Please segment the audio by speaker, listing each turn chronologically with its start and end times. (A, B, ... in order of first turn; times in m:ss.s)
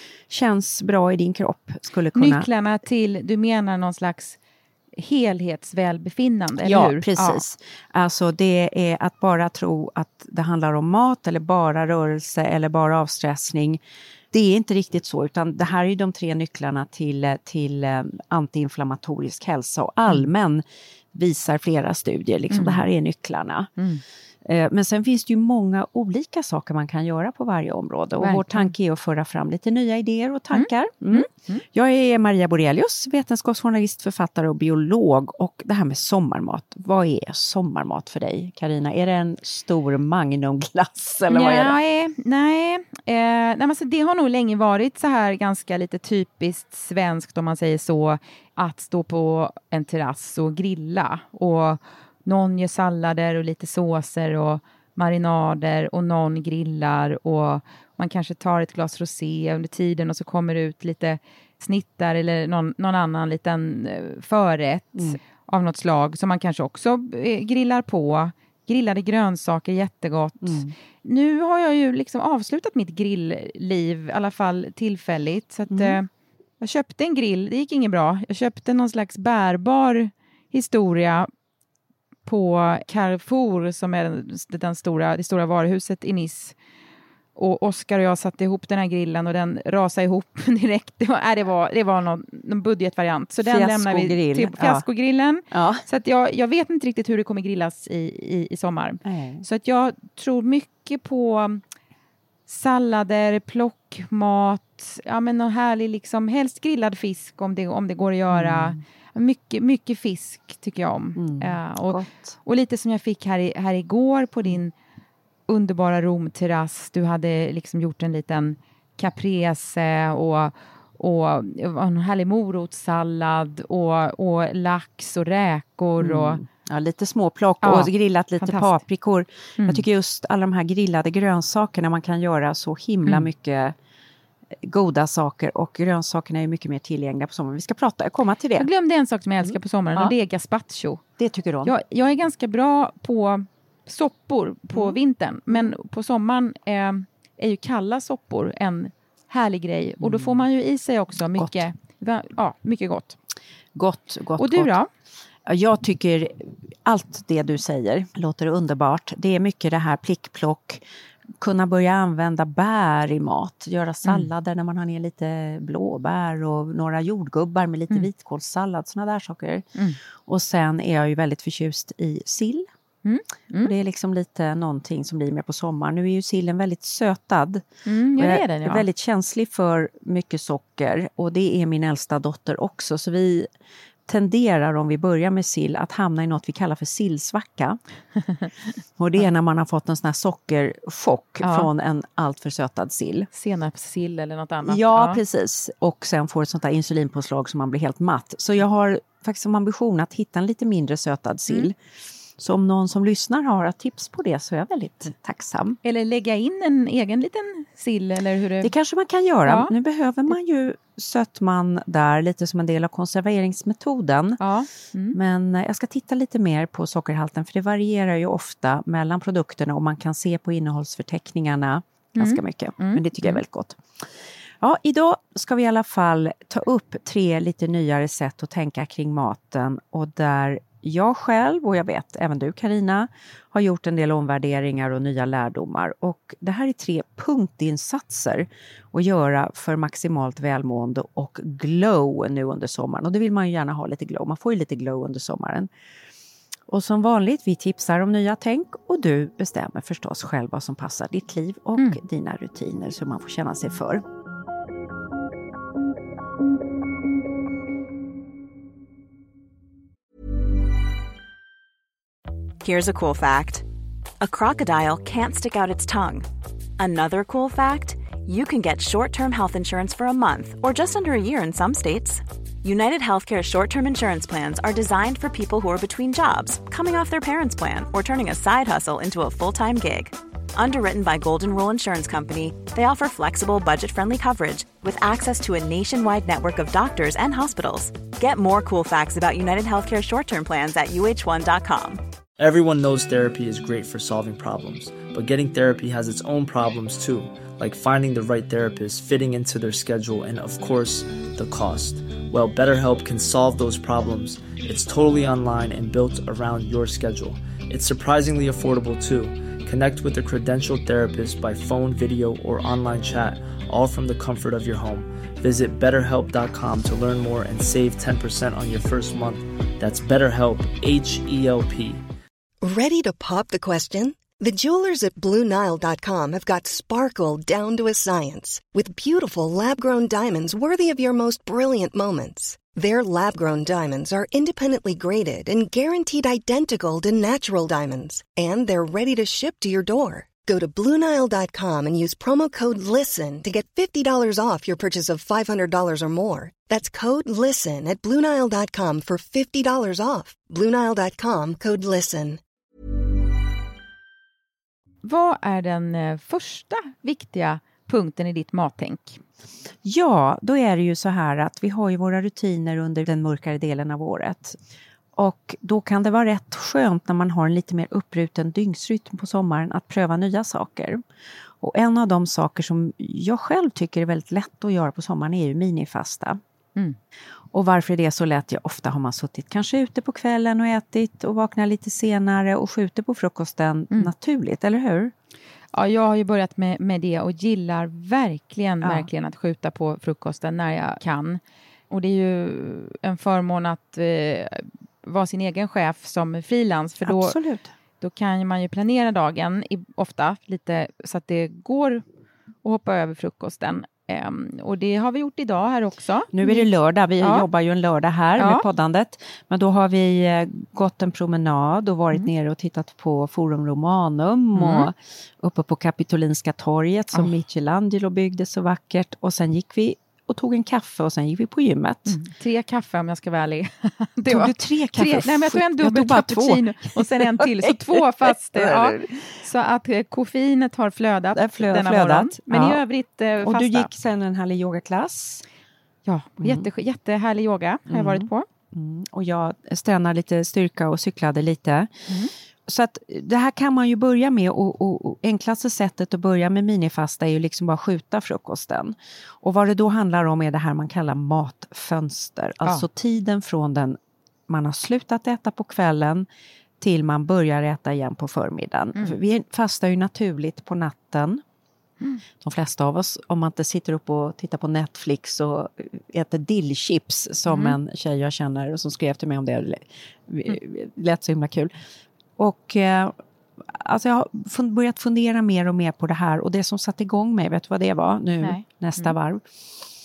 0:00.3-0:02.5 A
0:02.1-0:04.4 B
0:04.9-0:07.4 B
0:06.6-0:23.7 A
0:22.5-0:22.8 B
0:23.8-0:24.0 B
0:24.4-0:41.8 A
0:28.2-0:28.7 B
0:30.5-0:31.6 B
0:41.3-1:16.1 B
1:10.4-1:10.7 A
1:15.7-1:16.0 A
1:16.6-1:21.3 B
1:22.2-1:26.5 B
1:27.4-1:41.6 B
1:33.4-1:34.9 A
1:35.5-1:35.8 A
1:39.0-1:39.4 A
1:42.5-1:54.7 B
1:48.3-1:48.8 A
1:51.2-1:52.4 A
1:55.5-2:06.4 B
2:06.0-2:13.7 A
2:07.6-2:08.8 B
2:14.6-2:18.7 A
2:18.6-2:21.0 B
2:19.4-2:20.1 A
2:21.2-2:21.7 A
2:21.6-2:33.2 B
2:24.7-2:25.0 A
2:30.0-2:30.4 A
2:31.4-2:31.6 A
2:33.7-2:34.8 A
2:34.4-2:34.9 B
2:35.4-2:40.8 A
2:41.4-2:52.7 A
2:53.0-2:53.7 B
2:53.6-2:57.6 A
2:57.8-2:58.8 B
2:58.2-3:03.5 A
3:04.1-3:07.8 A
3:09.0-3:13.3 A
3:11.4-3:11.7 B
3:13.3-3:15.2 B
3:14.6-3:21.8 A
3:22.4-3:25.8 A
3:25.8-3:28.7 B
3:28.6-3:34.4 A
3:29.4-3:29.7 B
3:34.4-3:35.2 B
3:35.1-3:43.8 A
3:42.2-3:43.4 B
3:44.6-4:05.7 A
4:06.7-4:14.0 A
4:22.6-4:23.6 C
4:24.2-4:26.2 C
4:26.8-4:52.0 C
4:52.4-5:22.0 D
5:22.6-5:52.4 E
5:55.0-5:59.2 B
5:59.8-6:04.6 A
6:05.1-6:11.0 A
6:11.6-6:16.4 A
6:17.5-6:25.1 A
6:25.7-6:37.4 B
6:28.8-6:29.1 A
6:37.0-6:37.7 A
6:38.0-6:42.0 B
6:42.6-6:46.7 B
6:46.3-7:02.2 A
6:48.4-6:48.6 B
6:54.5-6:54.9 B
7:02.1-7:13.9 B
7:04.3-7:09.2 A
7:11.3-7:12.8 A
7:13.4-7:15.4 A
7:16.0-7:18.4 B
7:16.4-7:16.7 A
7:17.9-7:21.9 A
7:22.6-7:34.0 A
7:34.5-7:36.3 A
7:36.8-7:41.4 A
7:42.4-7:51.7 A
7:47.5-7:47.8 B
7:52.4-7:59.4 A
7:58.4-7:59.1 B